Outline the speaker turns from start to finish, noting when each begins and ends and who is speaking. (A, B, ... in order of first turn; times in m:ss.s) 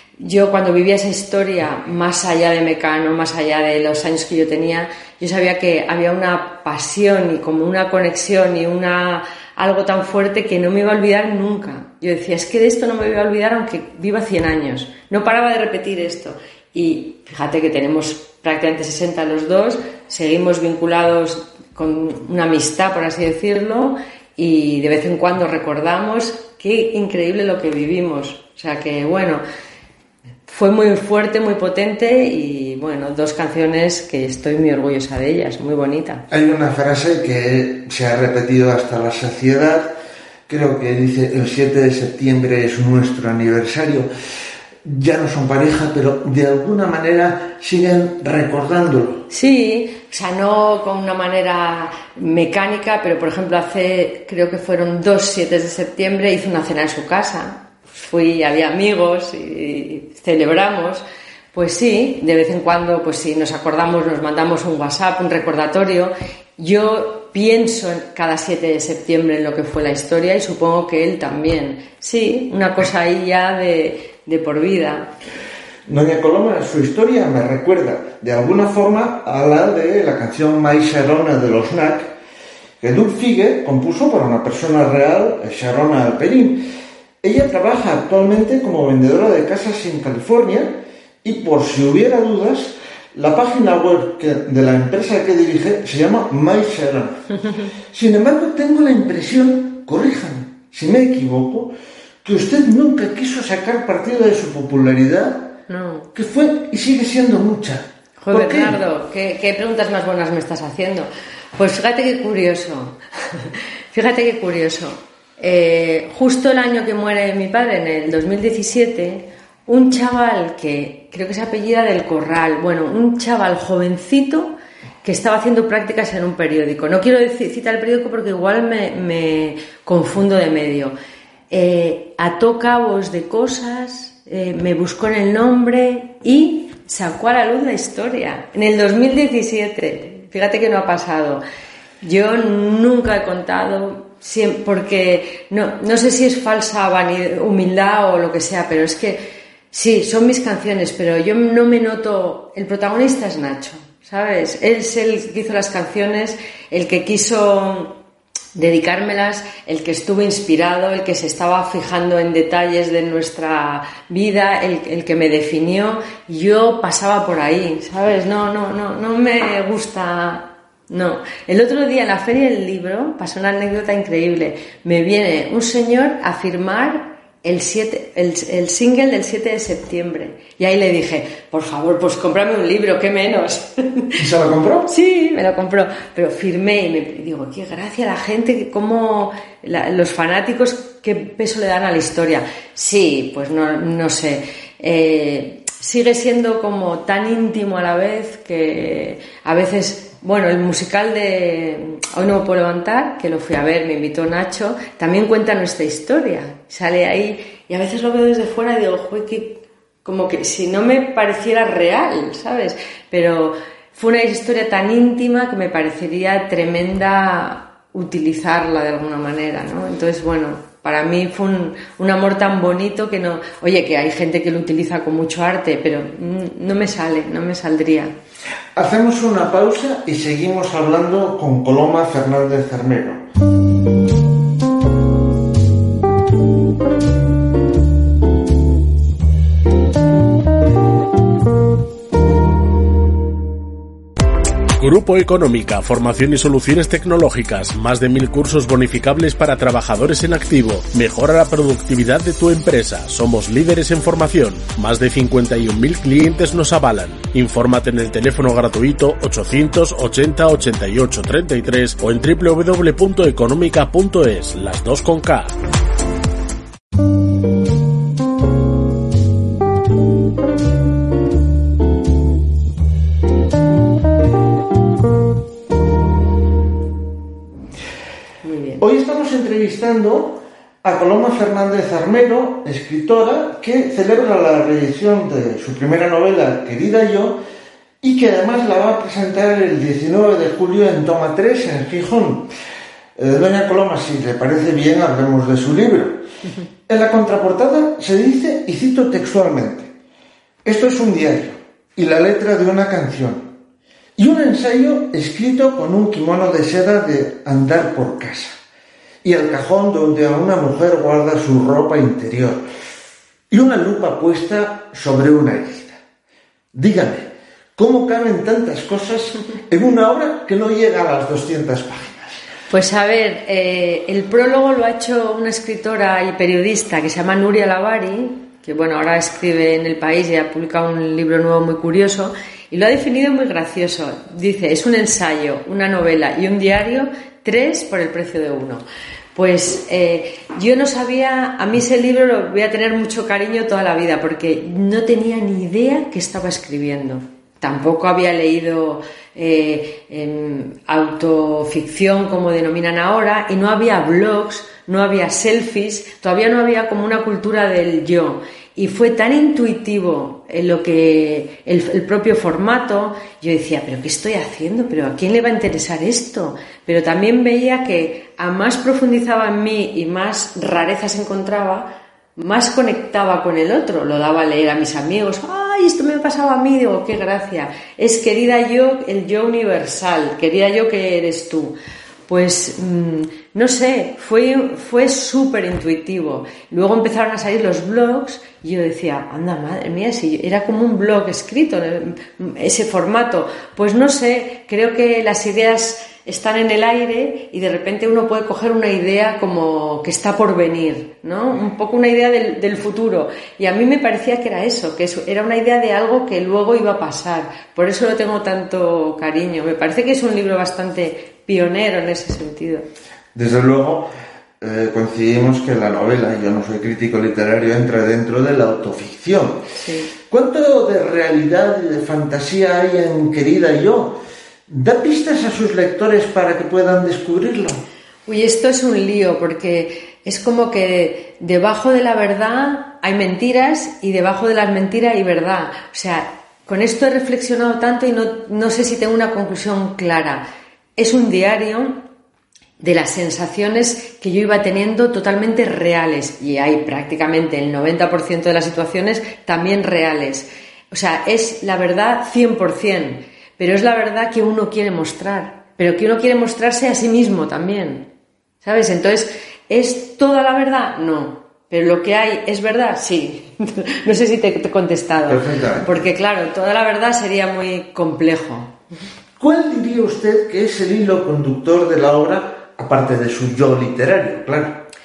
0:00.2-0:29.4 A
0:30.5-0:36.2 A
0:36.3-0:39.9 B
0:40.5-0:44.1 B
0:44.8-0:49.3 B
0:49.3-1:15.1 A
1:15.8-1:22.1 B
1:22.8-1:26.6 B
1:27.2-1:37.3 B
1:37.9-1:41.7 B
1:42.2-1:45.6 B
1:45.7-1:46.1 A
1:46.1-1:48.8 B
1:48.2-2:10.9 A
2:11.5-2:21.4 A
2:22.0-2:38.0 A
2:38.5-3:04.2 A
3:04.2-3:04.9 B
3:04.9-3:48.1 A
3:48.7-3:53.2 B
4:04.8-4:25.5 C
4:38.4-4:38.8 A
4:38.8-4:47.4 B
4:48.0-4:52.5 B
4:53.2-4:56.2 B
4:56.9-4:59.9 B
5:00.6-5:03.5 B
5:04.2-5:08.6 B
5:09.2-5:12.6 B
5:13.5-5:16.0 B
5:16.7-5:22.4 B
5:22.7-5:38.8 A
5:39.3-6:21.8 A
6:22.3-6:52.8 A
6:53.3-6:54.1 B
6:54.6-6:59.6 B
6:59.8-7:00.1 A
7:00.2-7:07.8 B
7:08.3-7:20.4 A
7:21.0-7:22.0 A
7:22.8-7:38.1 A
7:38.6-7:48.8 A
7:45.3-7:45.9 B
7:49.4-7:54.8 B